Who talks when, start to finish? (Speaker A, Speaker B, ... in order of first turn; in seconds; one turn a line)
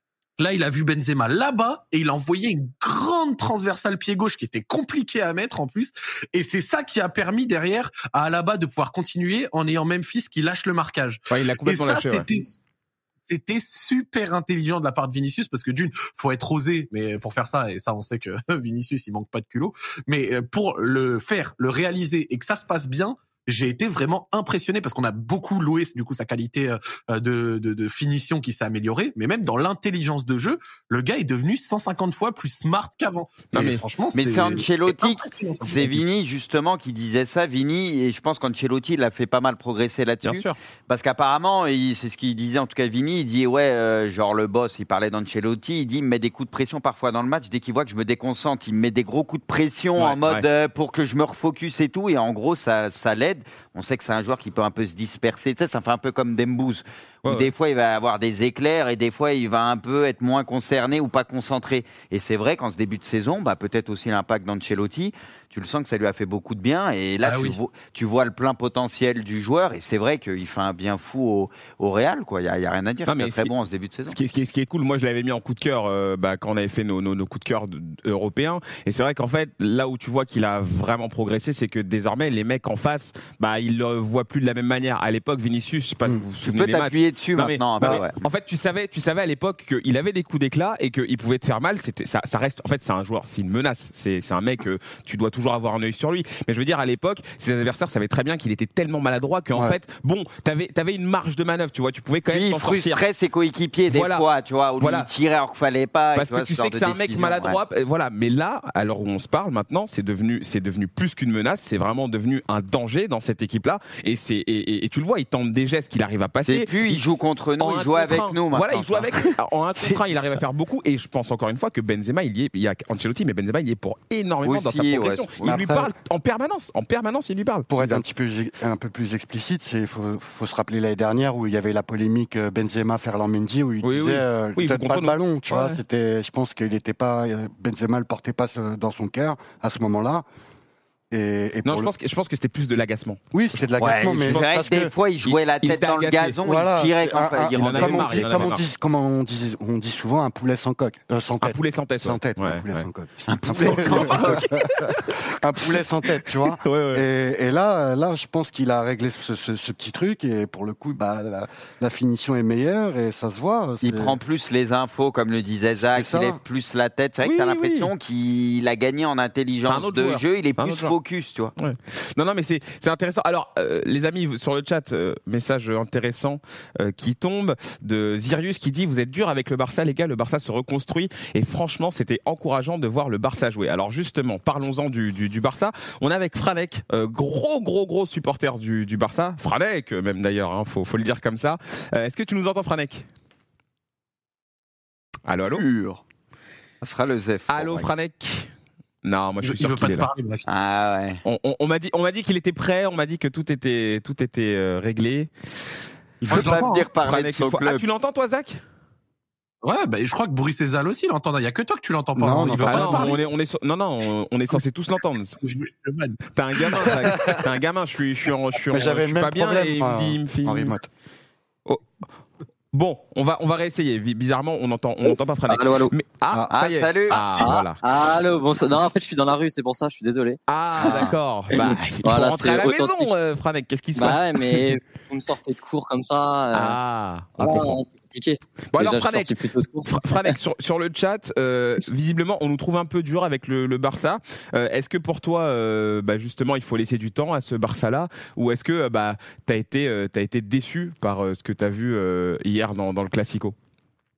Speaker A: 0.4-12.6
Speaker B: 11.3-12.3
Speaker A: 13.3-36.0
Speaker B: 33.5-33.8
Speaker C: 34.1-74.2
Speaker B: 40.2-40.6
Speaker B: 50.0-50.5
Speaker B: 57.2-57.5
Speaker A: 67.2-67.6
Speaker B: 73.1-73.5
Speaker B: 74.1-103.0
Speaker C: 86.4-88.2
Speaker D: 99.5-99.8
Speaker C: 102.3-107.6
Speaker B: 103.9-104.2
Speaker B: 104.8-105.1
Speaker B: 106.2-117.0
Speaker C: 116.5-120.0
Speaker B: 117.6-128.0
Speaker C: 124.5-125.6
Speaker D: 125.4-125.9
Speaker D: 127.7-140.2
Speaker B: 133.8-135.8
Speaker D: 141.1-141.9
Speaker B: 141.7-144.6
Speaker D: 143.3-144.9
Speaker C: 143.8-148.6
Speaker B: 145.2-146.4
Speaker D: 146.4-164.2
Speaker B: 147.5-148.6
Speaker B: 151.4-152.9
Speaker C: 153.3-154.4
Speaker B: 153.5-155.2
Speaker B: 156.6-157.0
Speaker C: 163.8-171.5
Speaker D: 165.7-166.4
Speaker B: 167.2-167.9
Speaker B: 169.7-171.0
Speaker B: 171.6-193.1
Speaker B: 195.3-195.7
Speaker C: 195.5-196.0
Speaker C: 196.8-197.9
Speaker B: 197.5-198.5
Speaker B: 199.0-200.1
Speaker A: 199.4-200.5
Speaker C: 200.5-201.2
Speaker B: 201.2-205.3
Speaker C: 206.2-207.8
Speaker A: 206.3-206.9
Speaker B: 206.3-208.6
Speaker A: 209.6-213.2
Speaker D: 212.2-213.2
Speaker B: 212.6-215.3
Speaker A: 215.3-217.4
Speaker B: 216.3-220.8
Speaker D: 218.7-220.9
Speaker B: 222.7-227.8
Speaker E: 225.5-225.9
Speaker C: 226.5-227.2
Speaker A: 227.1-227.6
Speaker E: 227.4-233.2
Speaker B: 230.5-234.7
Speaker C: 230.8-231.2
Speaker E: 234.0-236.8
Speaker B: 236.5-237.8
Speaker E: 237.4-240.4
Speaker B: 238.7-239.3
Speaker B: 239.9-253.6